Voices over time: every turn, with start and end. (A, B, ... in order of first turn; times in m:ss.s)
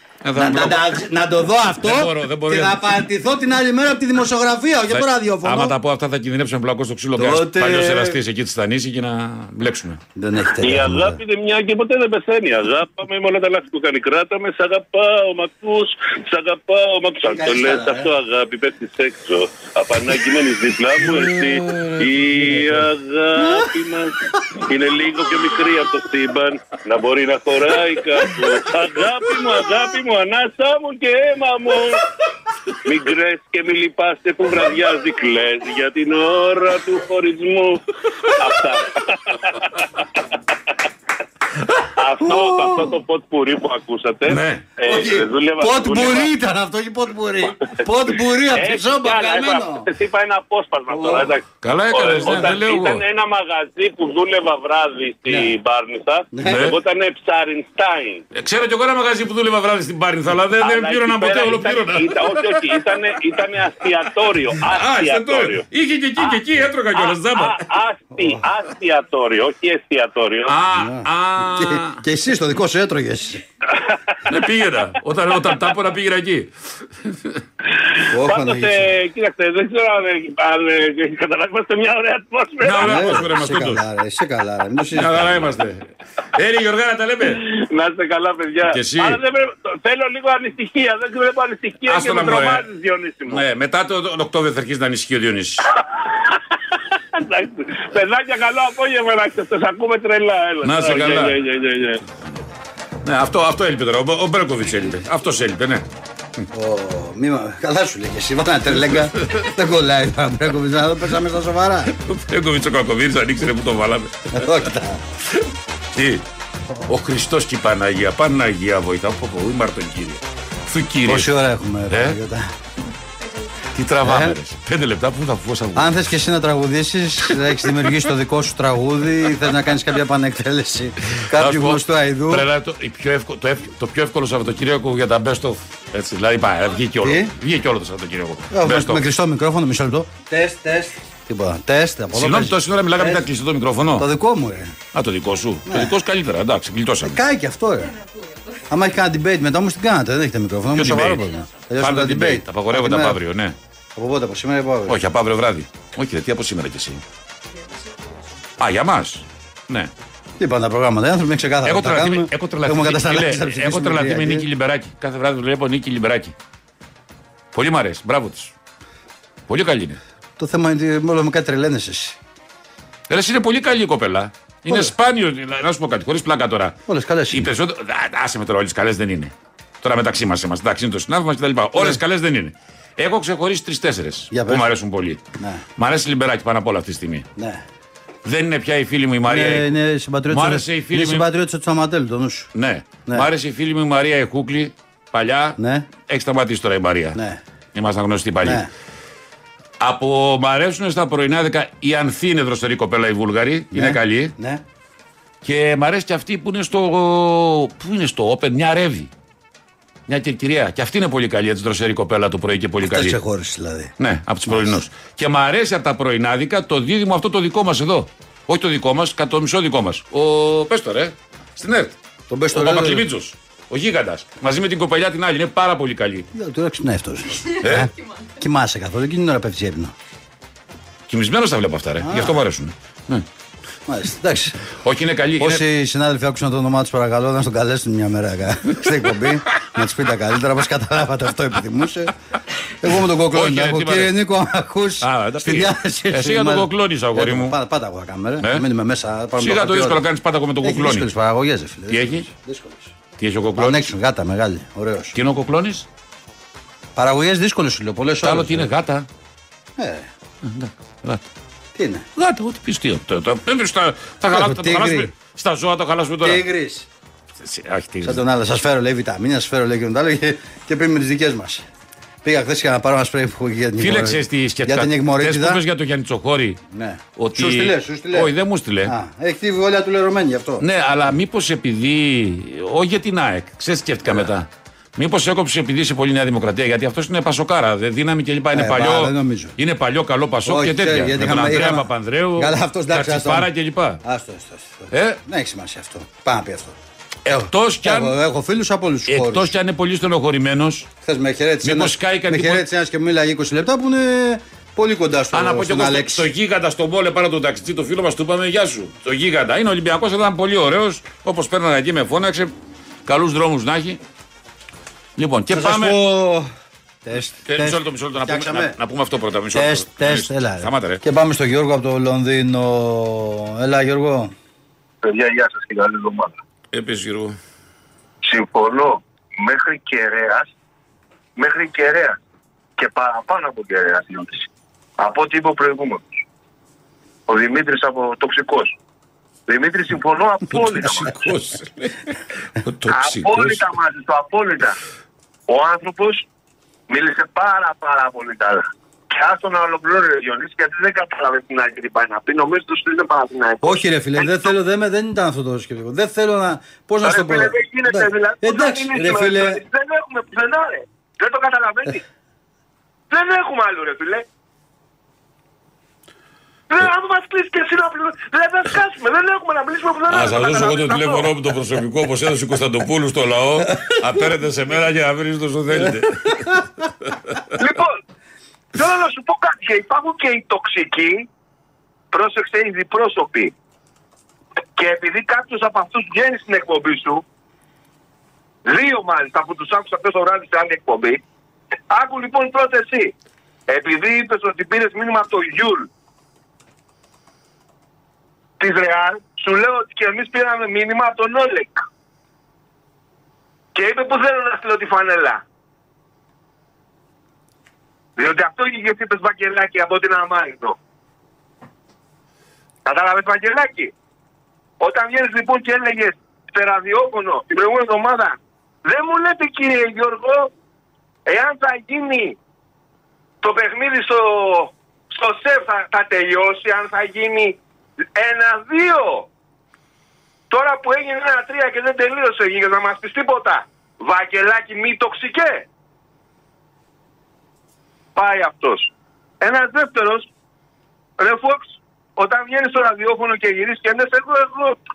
0:00.2-0:00.9 A
0:00.4-0:05.8 B
0:01.8-0:02.8 A
0:04.9-0:10.0 A
0:07.2-0:08.2 B
0:10.2-0:11.2 B
0:10.6-0:32.0 C
0:17.2-0:18.1 B
0:21.0-0:22.8 A
0:32.8-0:39.6 C
0:42.0-0:46.3 C
0:42.2-0:43.0 B
0:44.3-0:44.8 A
0:44.8-0:49.9 B
0:48.5-0:58.3 C
0:50.9-0:51.3 B
0:51.6-0:53.0 A
0:55.3-0:55.6 B
0:56.3-0:56.7 B
0:56.4-0:56.8 A
0:58.3-1:02.9 A
1:00.6-1:05.7 C
1:04.6-1:07.6 A
1:06.2-1:10.6 C
1:08.1-1:08.4 B
1:10.5-1:12.0 A
1:10.7-1:13.4 B
1:14.3-1:16.5 A
1:17.0-1:17.4 A
1:18.1-1:18.9 B
1:18.1-1:23.3 C
1:22.6-1:23.8 A
1:22.8-1:25.6 B
1:24.9-1:27.4 A
1:27.3-1:33.4 C
1:28.7-1:29.2 A
1:31.9-1:32.7 A
1:33.3-1:35.6 A
1:36.3-1:42.0 C
1:40.6-1:41.4 A
1:43.0-1:45.8 A
1:46.5-1:51.9 B
1:49.2-1:49.5 A
1:51.9-1:54.5 A
1:54.3-1:55.0 B
1:56.0-1:56.2 A
1:56.9-2:01.3 A
2:01.1-2:02.5 B
2:01.9-2:02.2 A
2:03.7-2:06.0 A
2:04.0-2:04.4 B
2:05.8-2:12.5 B
2:11.4-2:19.0 A
2:17.0-2:17.3 B
2:18.5-2:23.3 B
2:22.1-2:24.1 A
2:24.0-2:24.8 B
2:24.9-2:27.2 A
2:25.7-2:26.0 B
2:27.0-2:27.9 B
2:28.7-2:33.2 B
2:30.7-2:31.2 A
2:31.8-2:33.6 A
2:34.0-2:35.0 B
2:34.9-2:37.0 A
2:38.6-2:39.9 A
2:40.4-2:44.5 B
2:41.6-2:46.3 A
2:47.5-2:48.5 A
2:49.5-2:50.0 A
2:50.4-2:52.2 B
2:53.1-2:56.8 A
2:54.7-2:54.9 B
2:56.9-2:57.5 B
2:57.3-3:05.2 A
3:01.8-3:02.0 B
3:04.3-3:04.7 B
3:05.4-3:05.6 B
3:05.8-3:07.3 A
3:07.4-3:07.6 B
3:08.2-3:09.7 A
3:09.3-3:12.5 B
3:10.3-3:11.3 A
3:12.6-3:17.2 A
3:15.6-3:15.9 B
3:17.2-3:17.4 B
3:17.7-3:18.7 A
3:18.4-3:18.7 B
3:19.8-3:24.3 A
3:23.7-3:24.6 B
3:25.4-3:29.1 A
3:30.1-3:33.2 A
3:32.8-3:33.9 B
3:34.0-3:42.0 A
3:34.5-3:34.8 B
3:42.3-3:43.1 B
3:42.5-3:46.3 A
3:46.3-3:49.9 B
3:47.6-3:47.9 A
3:51.1-3:53.2 A
3:52.0-3:52.4 B
3:53.9-3:54.6 B
3:54.8-3:55.6 A
3:55.4-4:02.1 B
4:02.8-4:10.0 B
4:03.3-4:04.1 A
4:05.0-4:07.6 A
4:09.4-4:11.1 A
4:10.6-4:13.0 B
4:11.9-4:12.3 A
4:13.2-4:13.9 A
4:13.6-4:15.2 B
4:15.2-4:15.9 A
4:17.0-4:18.7 B
4:18.2-4:19.1 A
4:19.8-4:20.1 B
4:20.4-4:21.2 A
4:21.8-4:22.1 B
4:22.2-4:26.4 A
4:24.3-4:25.1 B
4:26.2-4:26.9 B
4:27.4-4:28.2 A
4:28.0-4:31.6 B
4:32.2-4:35.6 B
4:33.8-4:36.6 A
4:36.7-4:38.3 B
4:37.2-4:38.9 A
4:38.8-4:40.6 B
4:40.6-4:54.0 A
4:48.5-4:49.6 B
4:50.4-4:53.5 B
4:54.0-4:56.8 B
4:54.9-4:55.2 A
4:57.3-4:58.2 A
4:57.3-4:59.5 B
4:59.1-5:00.9 A
5:01.0-5:06.3 B
5:01.6-5:02.6 A
5:05.3-5:12.5 A
5:13.1-5:14.0 A
5:15.2-5:16.0 A
5:15.5-5:16.5 B
5:17.0-5:18.8 B
5:17.4-5:21.0 A
5:19.5-5:24.3 B
5:25.0-5:26.4 D
5:26.7-5:27.4 A
5:28.2-5:30.5 D
5:31.4-5:32.2 D
5:32.8-5:36.1 D
5:37.3-5:38.7 D
5:39.5-5:41.1 D
5:40.5-5:42.0 A
5:42.6-5:43.7 A
5:42.9-5:44.8 D
5:45.5-5:46.3 D
5:46.9-5:54.5 D
5:53.6-5:59.6 B
5:57.0-6:02.0 D
6:03.1-6:04.3 D
6:06.7-6:11.3 D
6:10.1-6:17.4 A
6:17.6-6:18.0 D
6:18.8-6:21.3 D
6:22.1-6:23.5 D
6:24.8-6:27.2 D
6:28.6-6:31.2 D
6:31.9-6:33.1 D
6:33.7-6:35.9 D
6:38.6-6:41.8 D
6:43.8-6:45.4 D
6:48.2-6:50.8 D
6:52.8-6:53.9 D
6:54.8-7:00.5 D
7:01.3-7:02.4 D
7:03.4-7:07.6 D
7:08.2-7:09.3 D
7:10.5-7:15.7 D
7:18.2-7:20.3 D
7:21.2-7:24.8 D